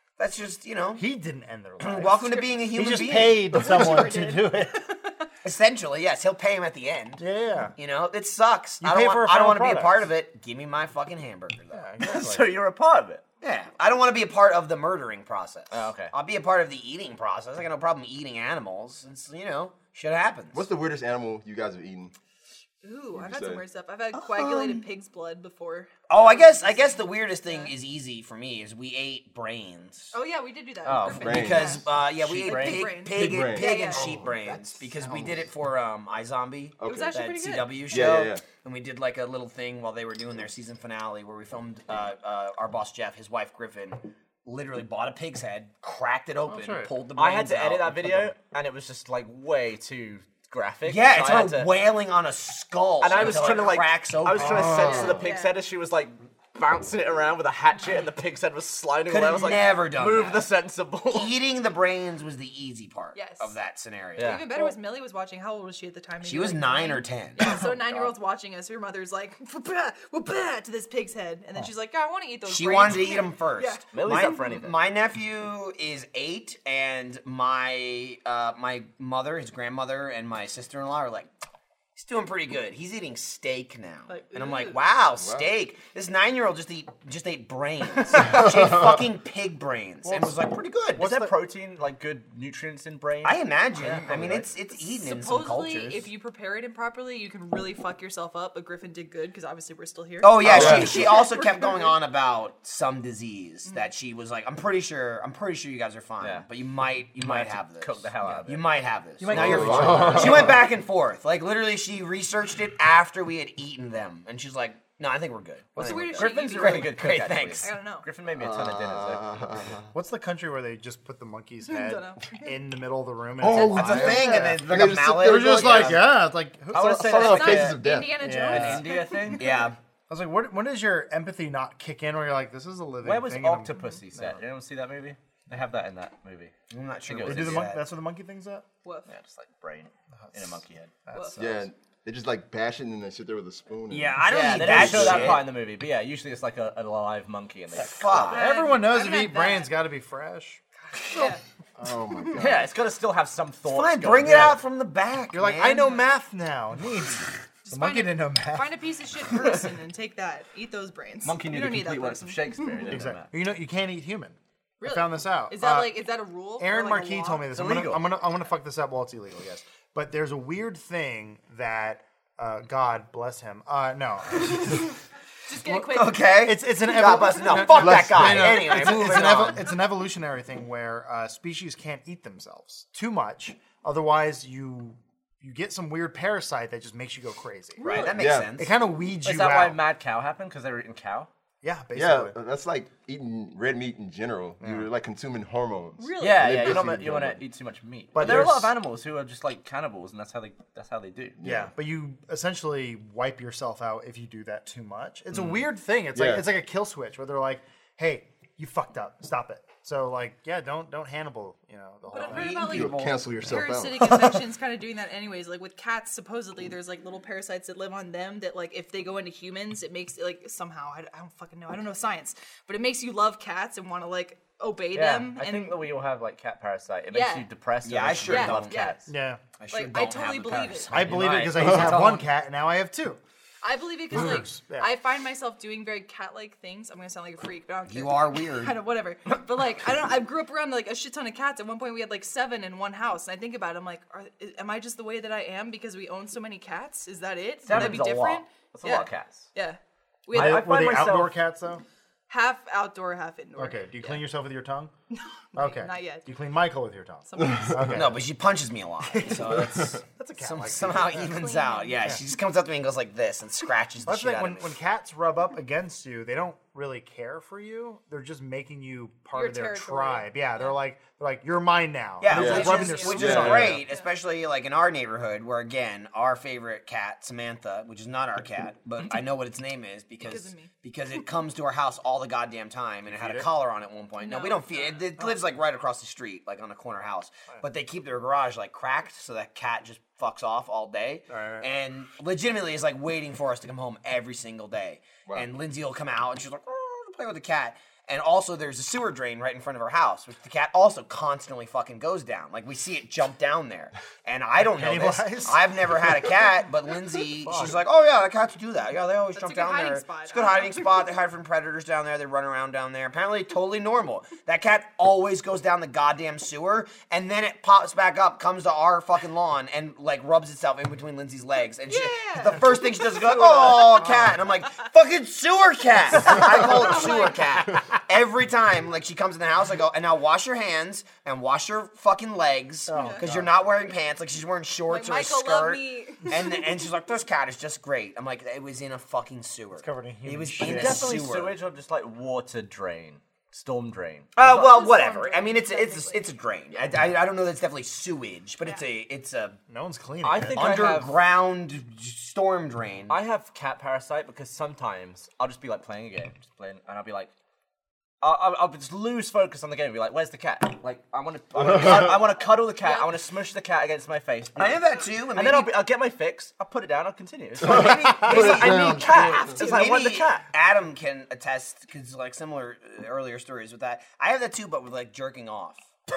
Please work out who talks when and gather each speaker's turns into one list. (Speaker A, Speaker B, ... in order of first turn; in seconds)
Speaker A: 0.2-1.0, 1.8-3.7, 5.4-7.2, 7.8-11.9, 13.4-20.6, 24.1-24.9, 26.1-30.1, 31.3-48.3, 50.9-55.2, 59.1-60.5, 61.1-64.7, 66.2-67.6, 72.5-81.3, 82.0-91.3, 93.2-96.1, 100.2-117.7, 123.5-126.0, 129.4-129.8, 136.7-137.8, 143.9-145.4, 147.7-148.4, 153.7-156.0, 175.7-179.7, 187.8-188.7, 212.2-213.2, 227.8-228.8, 229.6-232.2, 237.9-238.8, 257.9-264.7, 272.2-341.6, 344.4-349.6, 350.5-353.2, 364.6-365.7, 368.0-375.9
Speaker B: 0.9-4.8, 7.2-7.7, 8.8-10.1, 11.7-12.6, 34.1-35.1, 46.5-46.9, 90.0-90.4, 109.2-110.6, 119.9-127.2, 128.2-128.9, 130.1-134.4, 137.2-138.7, 140.3-141.7, 148.3-150.6, 154.3-154.5, 155.3-158.7, 162.9-166.0, 166.6-174.9, 176.4-187.8, 188.5-189.8, 191.6-192.3, 194.6-194.9, 198.2-198.7, 201.4-212.7, 229.1-229.4, 230.9-233.2, 234.1-234.9, 250.3-251.8, 253.6-254.9, 255.6-258.3, 259.1-261.4, 264.1-273.8, 283.1-283.5, 291.3-291.7, 304.6-306.3, 307.3-307.8, 323.7-324.4, 332.9-333.5, 339.8-341.1, 349.7-350.8
Speaker C: 2.1-5.3, 22.8-27.7, 30.1-31.9, 32.4-34.1, 36.8-38.0, 53.1-53.5, 54.9-55.5, 63.1-63.5, 64.2-74.4, 84.1-84.8, 94.7-102.0, 115.8-118.1, 121.7-122.5, 127.1-129.4, 138.8-139.1, 148.2-149.7, 151.1-151.4, 157.7-162.8, 164.8-167.5, 175.5-176.4, 187.8-188.2, 196.0-196.8, 212.1-225.9, 227.1-227.5, 228.2-229.0, 229.7-231.1, 233.6-250.7, 252.3-254.2, 255.1-256.3, 257.3-257.9, 261.1-262.0, 269.3-270.8, 272.3-274.1, 280.2-280.7, 284.2-285.1, 309.4-311.1, 321.9-324.1, 326.3-327.5, 332.9-333.2, 334.9-336.6, 344.4-346.3, 362.8-363.1
Speaker D: 12.0-13.2, 15.7-16.1, 30.9-33.1, 47.1-51.7, 53.0-61.3, 64.2-64.5, 73.9-74.8, 91.0-94.5, 106.2-106.5, 107.2-108.7, 116.2-119.7, 126.7-127.9, 128.5-129.7, 133.0-136.5, 137.1-137.7, 139.1-141.0, 144.3-148.3, 152.3-154.6, 161.2-163.3, 167.5-168.1, 189.2-191.3, 196.2-201.4, 224.9-229.1, 231.3-231.6, 247.7-249.5, 250.3-251.3, 340.6-344.4, 350.2-351.2, 353.1-357.3, 358.2-370.4
Speaker E: 20.5-22.1, 23.1-23.6, 31.1-31.8, 33.1-34.3, 35.0-35.4, 36.8-37.1, 37.9-38.4, 54.5-55.2, 85.1-85.5, 88.3-88.9, 100.4-101.1, 109.3-110.7, 118.3-119.9, 123.4-126.0, 126.8-128.3, 141.4-145.4, 151.8-152.7, 177.7-178.5, 188.1-188.6, 191.9-197.4, 198.2-198.5, 201.4-201.7, 206.1-206.4, 212.6-214.4, 272.3-273.7, 361.6-362.2, 367.6-369.6